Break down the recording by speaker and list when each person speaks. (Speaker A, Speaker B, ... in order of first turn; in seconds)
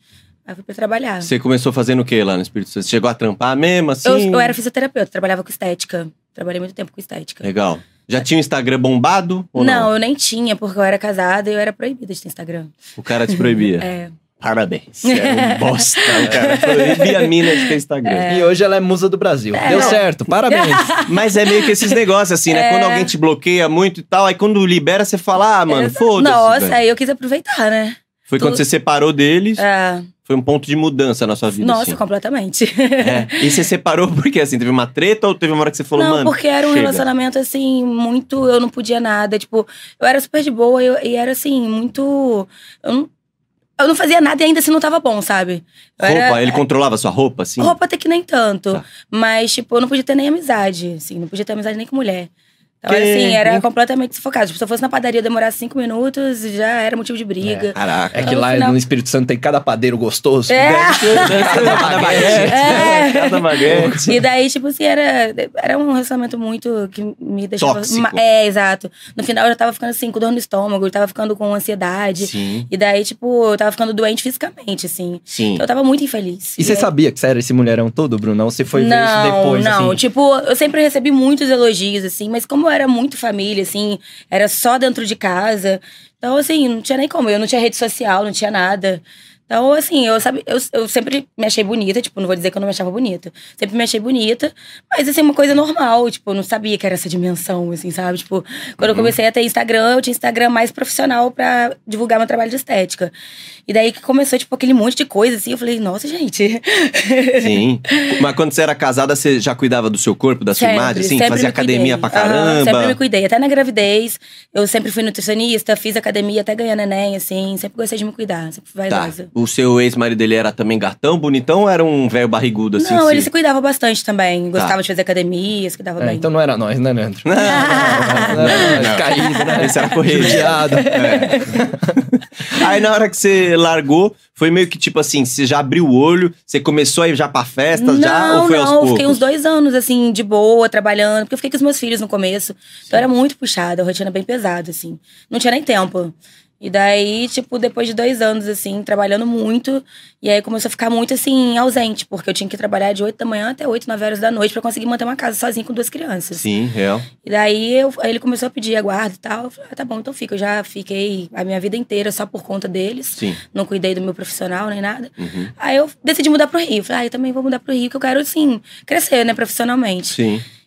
Speaker A: 0.5-1.3, 4.0-7.5, 9.6-12.7, 13.3-14.1, 15.1-18.5, 19.5-22.0, 22.5-23.1, 25.7-28.6, 29.6-30.1, 31.6-33.6, 36.0-43.1, 43.8-46.6, 47.6-52.3, 52.8-58.8, 60.5-76.9, 78.7-103.1, 103.7-108.2, 110.6-119.3, 122.8-126.3, 127.4-131.7, 137.8-156.4, 157.2-170.2
Speaker B: 1.2-4.5, 7.4-9.9, 13.0-13.9, 14.4-18.3, 19.7-20.0, 21.1-26.8, 28.3-29.6, 30.2-32.0, 33.0-37.1, 46.0-47.8, 52.9-53.6, 57.7-58.3, 60.9-64.2, 67.6-68.2, 72.2-72.7, 75.3-75.7, 98.8-99.1, 107.4-113.0, 118.9-123.3, 127.3-139.2, 156.3-157.1, 165.2-165.5, 170.1-170.4
Speaker C: 18.3-20.9, 57.5-63.1, 63.7-64.2, 76.6-80.0, 126.0-131.9